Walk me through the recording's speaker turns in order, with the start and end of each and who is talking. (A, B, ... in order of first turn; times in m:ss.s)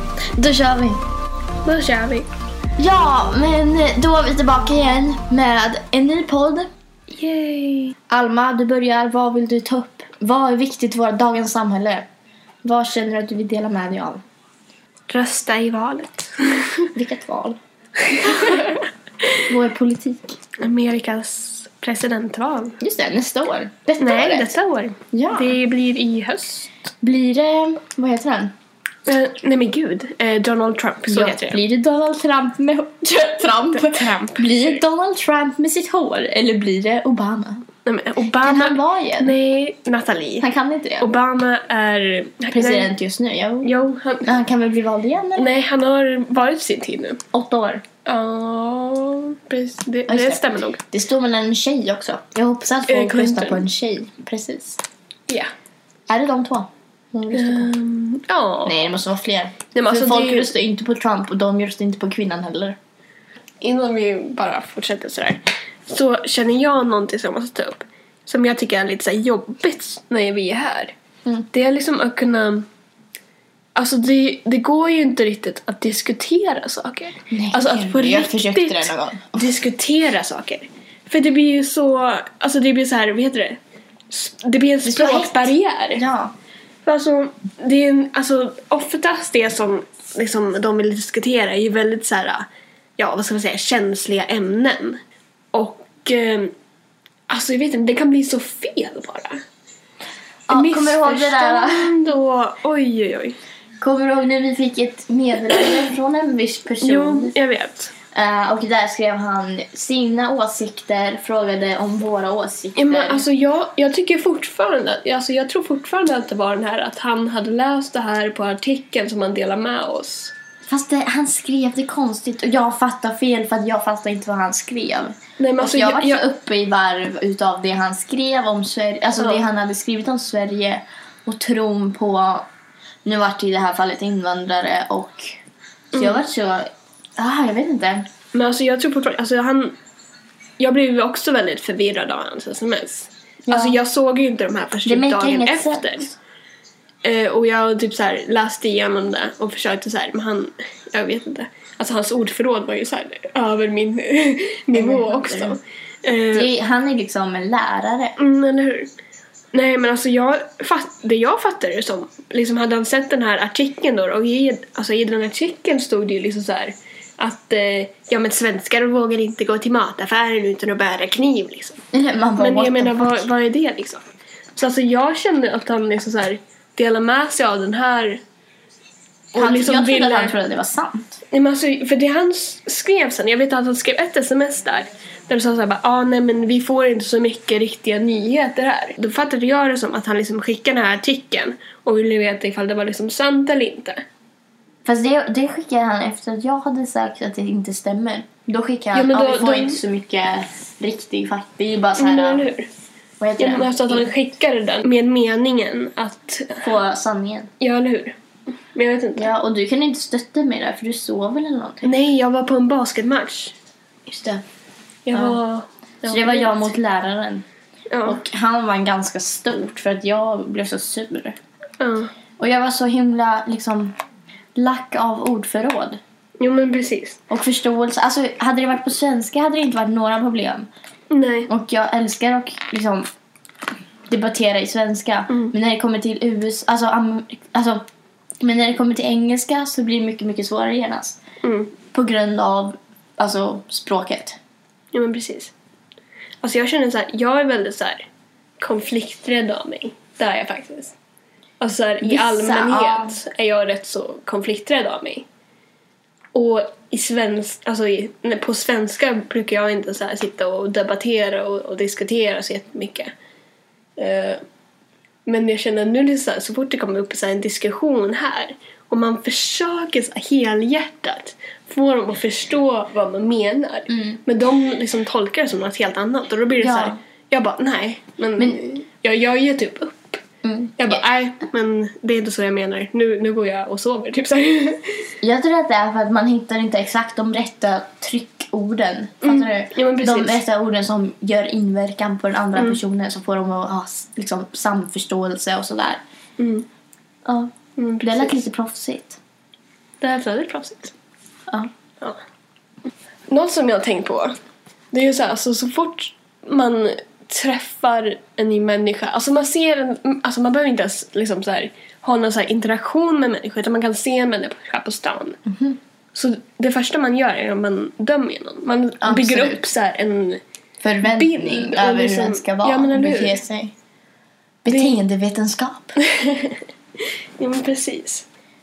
0:00.4-0:01.0 A
0:01.6-0:02.3 B
0:02.8-0:06.7 A
0:07.1-0:08.0 B
0:08.1-0:12.1 A
0:12.6-0:14.2 A
0:15.1-0:16.9 B
0:17.0-0:17.6 A
0:18.2-0:18.8 B
0:18.2-0:18.6 A
0:19.5-0:20.3 A
0:20.6-0:22.8 B
0:22.8-0:24.5 A
0:24.0-0:26.7 B
0:25.1-0:25.5 A
0:27.0-0:28.5 A
0:29.1-0:31.6 B
0:31.1-0:37.6 A
0:33.7-0:34.8 B
0:37.8-0:40.5 B
0:38.4-0:39.3 A
0:40.4-0:41.1 A
0:41.0-0:42.9 B
0:42.5-0:43.7 A
0:43.6-0:44.3 B
0:44.2-0:45.5 A
0:45.4-0:47.2 B
0:47.3-0:47.8 A
0:48.0-0:50.8 B
0:50.1-0:54.8 A
0:52.9-0:53.6 B
0:56.1-0:57.7 A
0:57.3-0:58.8 B
0:58.7-1:02.8 A
0:59.7-1:00.5 B
1:03.6-1:10.9 B
1:11.5-1:12.7 B
1:13.8-1:23.6 B
1:17.3-1:19.4 A
1:24.1-1:26.0 B
1:24.8-1:26.3 A
1:26.8-1:32.5 B
1:33.0-1:35.0 B
1:35.5-1:36.5 B
1:37.3-1:39.4 B
1:40.5-1:41.9 A
1:40.5-1:43.4 B
1:43.8-1:47.3 A
1:46.8-1:47.9 B
1:48.1-1:53.2 A
1:52.8-2:00.3 B
2:00.6-2:12.5 A
2:05.4-2:06.3 B
2:09.2-2:09.4 B
2:13.0-2:15.4 A
2:15.9-2:16.2 B
2:15.9-2:18.1 A
2:18.3-2:19.8 B
2:20.6-2:26.1 B
2:23.4-2:23.8 A
2:24.8-2:26.1 A
2:27.0-2:36.5 B
2:34.7-2:35.6 A
2:36.3-2:38.2 A
2:38.2-2:38.9 B
2:39.5-2:51.8 B
2:51.9-2:53.2 A
2:52.4-2:54.0 B
2:54.6-2:58.2 B
2:59.4-3:00.4 B
2:59.4-3:01.2 A
3:01.3-3:14.0 B
3:14.8-3:22.5 A
3:18.9-3:19.8 B
3:22.0-3:22.7 B
3:23.2-3:24.1 A
3:23.4-3:26.7 B
3:26.6-3:27.5 A
3:27.6-3:28.2 B
3:28.7-3:29.3 B
3:29.2-3:31.9 A
3:31.8-3:33.6 B
3:34.1-3:34.4 A
3:35.1-3:36.7 B
3:35.1-3:35.4 A
3:36.1-3:37.4 A
3:37.9-3:38.2 B
3:38.0-3:41.4 A
3:41.8-3:42.1 B
3:42.4-3:43.9 A
3:44.6-3:46.0 A
3:46.4-3:47.2 B
3:47.3-3:50.7 A
3:51.1-3:51.5 B
3:51.5-3:53.1 A
3:54.1-3:57.8 A
3:58.4-4:01.2 A
4:01.4-4:01.7 B
4:01.9-4:04.4 A
4:04.9-4:05.5 B
4:06.4-4:08.1 B
4:08.6-4:10.9 B
4:11.6-4:15.2 B
4:12.0-4:13.2 A
4:16.3-4:23.1 B
4:24.0-4:24.4 B
4:25.2-4:40.2 B
4:33.9-4:34.2 A
4:36.6-4:37.0 A
4:40.4-4:41.0 A
4:40.8-4:45.1 B
4:45.2-4:56.0 A
4:49.2-4:50.4 B
4:56.4-4:56.6 B
4:57.2-4:59.2 A
4:57.8-4:58.4 B
5:00.0-5:00.9 B
5:03.3-5:04.4 B
5:04.9-5:15.4 B
5:15.4-5:15.8 A
5:16.1-5:20.4 B
5:19.0-5:19.6 A
5:20.8-5:23.7 A
5:21.0-5:23.4 B
5:24.6-5:26.0 A
5:24.7-5:25.0 B
5:26.0-5:26.6 B
5:27.4-5:28.2 B